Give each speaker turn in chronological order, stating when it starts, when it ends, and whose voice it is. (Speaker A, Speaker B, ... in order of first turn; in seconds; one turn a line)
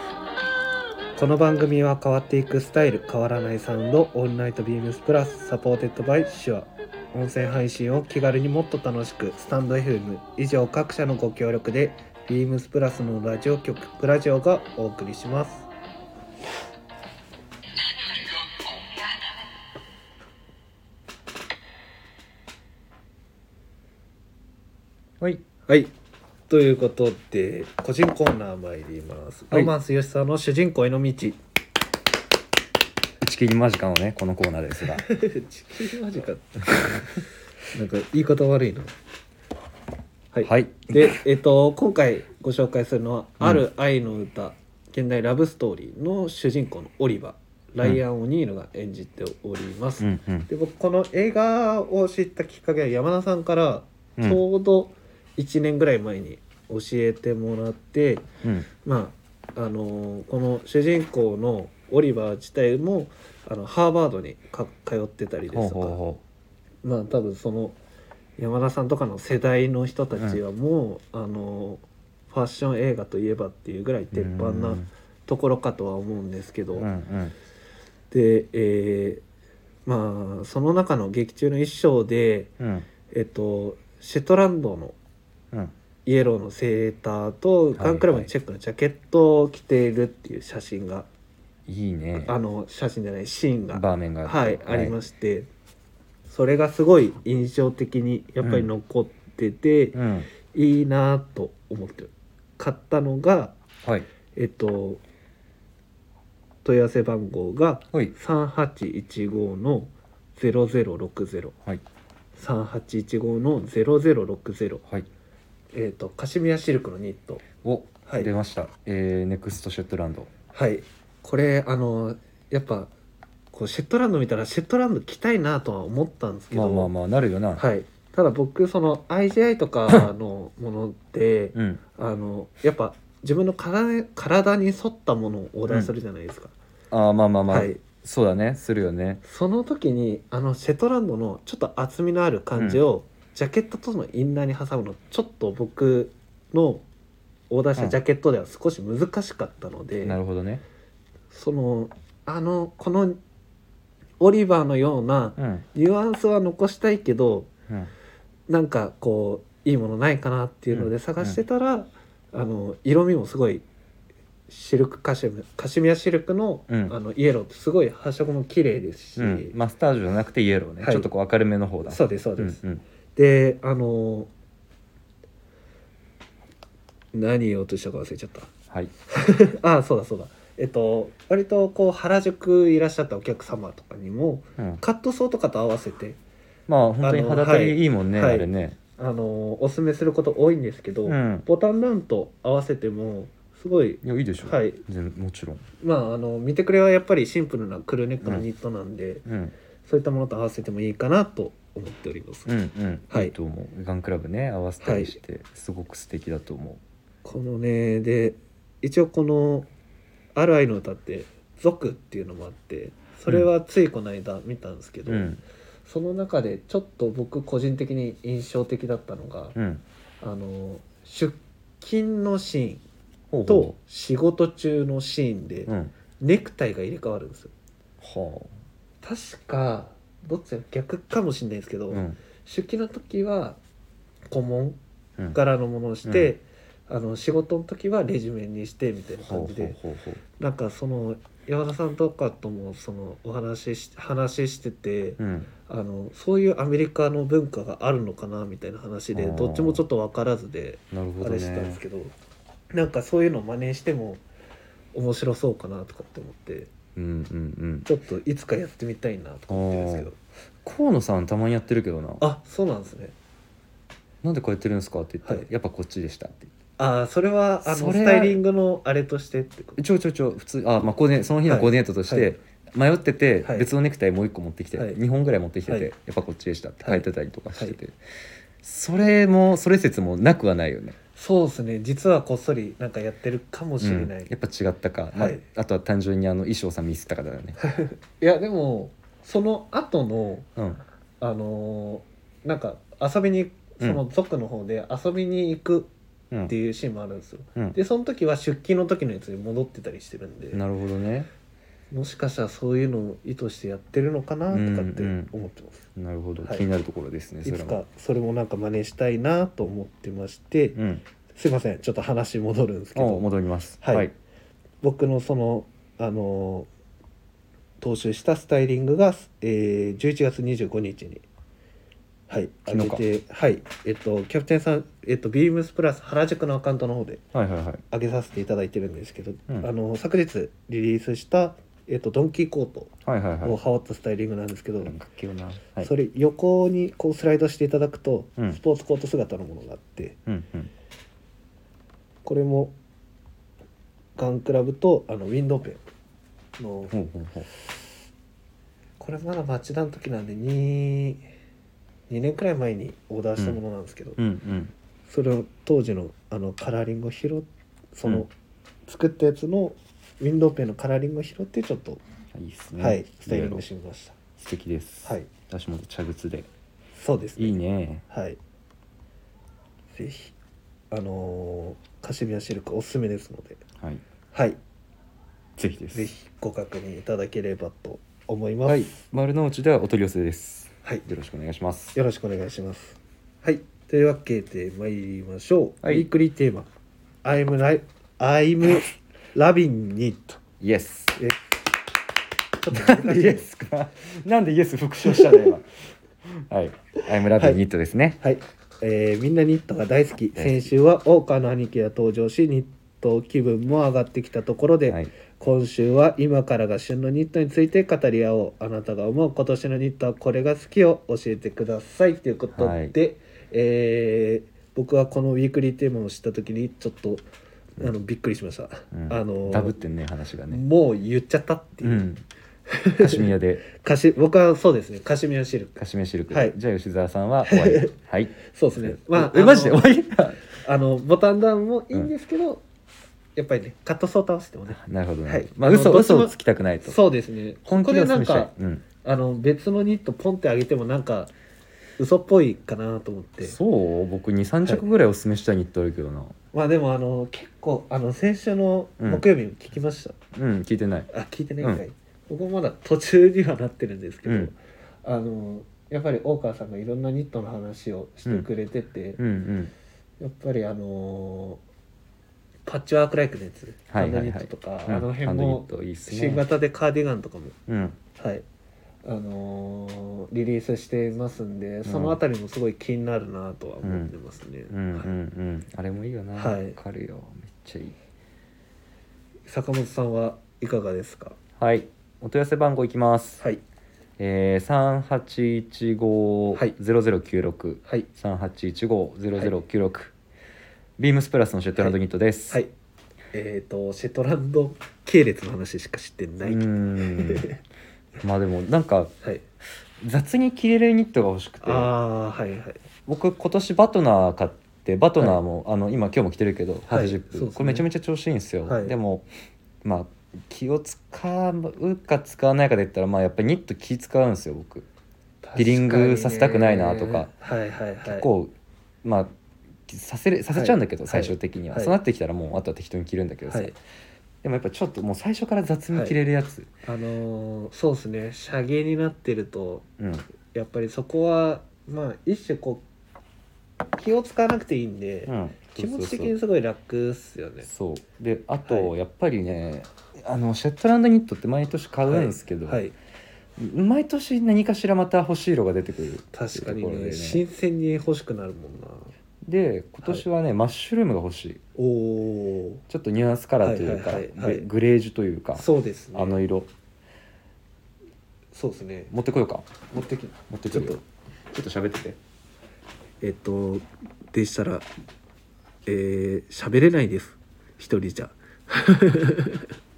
Speaker A: 1.2-15.7
Speaker A: 25.7-25.9
Speaker A: 26.5-31.4
Speaker B: 33.2-35.0
Speaker A: 35.0-38.9
Speaker A: 40.3-58.3
Speaker B: 40.4-41.2
Speaker B: 50.0-50.5
Speaker B: 58.4-58.7
Speaker A: 58.8-66.0
Speaker B: 65.5-66.2
Speaker A: 66.8-67.8
Speaker A: 68.4-76.9
Speaker B: 74.1-74.9
Speaker B: 76.8-77.3
Speaker A: 78.1-79.2
Speaker A: 79.9-82.5
Speaker B: 82.6-82.9
Speaker A: 83.1-85.0
Speaker A: 86.1-91.1
Speaker B: 87.8-88.3
Speaker B: 91.7-92.3
Speaker A: 92.2-95.5
Speaker B: 93.7-95.0
Speaker A: 96.3-103.6
Speaker B: 98.4-98.7
Speaker B: 99.9-100.3
Speaker A: 104.3-105.0
Speaker A: 106.6-111.5
Speaker A: 112.4-114.8
Speaker A: 115.7-117.4
Speaker B: 117.6-120.3
Speaker A: 120.5-122.9
Speaker A: 123.5-126.9
Speaker B: 126.5-127.6
Speaker A: 127.6-136.5
Speaker B: 131.6-131.8
Speaker B: 136.9-139.2
Speaker A: 137.5-137.8
Speaker A: 139.2-146.8
Speaker B: 142.6-142.8
Speaker A: 147.5-150.2
Speaker B: 150.0-150.6
Speaker A: 151.3-153.2
Speaker A: 154.2-157.5
Speaker B: 155.4-155.7
Speaker A: 158.5-163.7
Speaker B: 160.7-161.4
Speaker A: 164.5-169.6
Speaker B: 166.7-166.9
Speaker B: 169.2-172.8
Speaker A: 170.8-171.1
Speaker A: 171.8-172.6
Speaker A: 173.2-174.3
Speaker A: 177.1-178.5
Speaker A: 179.1-186.2
Speaker B: 186.7-188.8
Speaker A: 187.0-194.8
Speaker B: 191.1-191.4
Speaker B: 194.0-195.7
Speaker A: 195.8-199.2
Speaker B: 199.3-199.5
Speaker A: 199.8-202.5
Speaker B: 202.5-206.8
Speaker A: 204.8-205.2
Speaker A: 207.2-209.7
Speaker A: 210.3-215.3
Speaker B: 215.1-215.4
Speaker A: 215.9-219.6
Speaker B: 219.6-219.8
Speaker A: 220.2-222.8
Speaker B: 223.3-223.8
Speaker A: 223.5-227.5
Speaker B: 225.7-225.9
Speaker B: 228.0-228.5
Speaker A: 229.0-233.6
Speaker B: 231.9-232.2
Speaker A: 234.3-234.8
Speaker A: 235.3-239.8
Speaker B: 236.1-236.3
Speaker B: 239.2-240.2
Speaker A: 240.4-252.1
Speaker B: 245.2-245.5
Speaker B: 249.1-249.8
Speaker B: 250.9-251.8
Speaker A: 252.7-254.2
Speaker A: 254.9-256.7
Speaker B: 257.0-257.9
Speaker A: 257.9-260.2
Speaker B: 259.5-260.1
Speaker B: 260.6-262.2
Speaker A: 262.2-263.1
Speaker B: 264.2-266.5
Speaker A: 266.8-269.8
Speaker B: 267.6-268.4
Speaker B: 269.8-278.0
Speaker A: 271.5-272.3
Speaker A: 273.4-273.7
Speaker A: 276.8-277.8
Speaker B: 278.6-281.0
Speaker A: 281.2-284.3
Speaker B: 283.8-287.6
Speaker A: 285.1-285.4
Speaker A: 287.6-290.5
Speaker B: 290.6-290.8
Speaker A: 291.2-295.9
Speaker A: 296.5-300.6
Speaker B: 300.5-301.3
Speaker A: 301.9-305.9
Speaker B: 304.5-305.3
Speaker B: 306.0-307.8
Speaker A: 307.4-310.8
Speaker B: 310.8-311.0
Speaker A: 311.3-313.3
Speaker B: 312.9-314.1
Speaker A: 313.8-314.1
Speaker A: 314.8-316.7
Speaker A: 317.8-321.2
Speaker A: 322.3-327.2
Speaker B: 322.7-323.0
Speaker B: 327.3-327.8
Speaker A: 327.9-334.9
Speaker B: 333.1-333.6
Speaker B: 334.8-335.9
Speaker A: 335.8-340.2
Speaker B: 340.3-340.7
Speaker A: 342.2-342.8
Speaker A: 344.2-345.8
Speaker A: 346.6-346.9
Speaker B: 346.9-347.5
Speaker A: 349.0-351.2
Speaker A: 352.1-354.2
Speaker B: 354.2-354.7
Speaker A: 355.1-358.3
Speaker A: 358.9-362.0
Speaker B: 362.3-363.6
Speaker A: 362.8-364.1
Speaker B: 364.4-366.5
Speaker A: 367.0-368.4
Speaker B: 367.4-368.0
Speaker A: 369.9-370.4
Speaker A: 370.9-373.6
Speaker A: 374.3-374.6
Speaker B: 375.6-376.1
Speaker A: 375.9-378.9
Speaker B: 378.7-382.0
Speaker A: 381.9-386.7
Speaker A: 387.2-390.4
Speaker B: 390.6-391.2
Speaker A: 392.6-393.4
Speaker B: 392.7-395.7
Speaker A: 395.1-395.5
Speaker B: 396.3-398.2
Speaker A: 397.4-397.6
Speaker A: 398.2-417.3
Speaker B: 400.4-400.7
Speaker B: 412.5-412.9
Speaker A: 417.8-419.8
Speaker B: 418.9-420.6
Speaker A: 420.5-422.1
Speaker B: 421.8-422.2
Speaker A: 422.7-426.6
Speaker B: 423.0-423.6
Speaker B: 425.8-430.4
Speaker A: 427.4-429.9
Speaker A: 430.6-432.6
Speaker A: 433.4-438.5
Speaker B: 434.7-437.0
Speaker B: 437.7-438.8
Speaker A: 439.0-441.3
Speaker A: 442.0-443.6
Speaker B: 443.4-446.4
Speaker A: 446.5-450.2
Speaker B: 449.0-449.2
Speaker B: 450.3-451.1
Speaker A: 451.1-459.2
Speaker B: 454.2-454.5
Speaker B: 459.2-459.7
Speaker A: 460.2-461.6
Speaker A: 462.7-467.6
Speaker B: 463.9-466.4
Speaker B: 467.7-468.0
Speaker A: 468.2-468.4
Speaker A: 469.0-475.1
Speaker B: 471.9-472.2
Speaker B: 473.8-474.1
Speaker B: 474.7-478.0
Speaker A: 476.4-476.8
Speaker A: 479.5-481.4
Speaker B: 481.6-483.4
Speaker B: 484.2-490.1
Speaker B: 491.0-492.6
Speaker A: 493.3-497.6
Speaker B: 496.4-497.5
Speaker B: 498.2-499.1
Speaker B: 500.0-501.9
Speaker A: 501.6-502.8
Speaker B: 503.1-509.3
Speaker A: 506.9-507.9
Speaker A: 508.6-508.9
Speaker B: 509.8-514.9
Speaker A: 515.4-518.3
Speaker B: 515.6-517.3
Speaker B: 518.0-518.5
Speaker B: 519.0-519.3
Speaker B: 519.9-523.8
Speaker A: 520.5-522.0
Speaker A: 523.5-523.8
Speaker B: 524.4-526.7
Speaker A: 526.9-529.9
Speaker B: 530.0-530.3
Speaker A: 530.5-532.8
Speaker A: 534.0-537.7
Speaker B: 535.3-536.3
Speaker B: 537.6-542.8
Speaker A: 538.7-538.9
Speaker A: 542.1-542.9
Speaker B: 543.6-547.4
Speaker A: 546.3-549.1
Speaker B: 549.4-551.6
Speaker A: 551.8-552.8
Speaker B: 552.9-556.7
Speaker A: 553.6-554.7
Speaker A: 555.5-556.4
Speaker A: 558.5-559.1
Speaker B: 559.1-559.9
Speaker A: 559.9-561.0
Speaker B: 560.5-562.2
Speaker A: 563.2-564.9
Speaker A: 565.9-569.7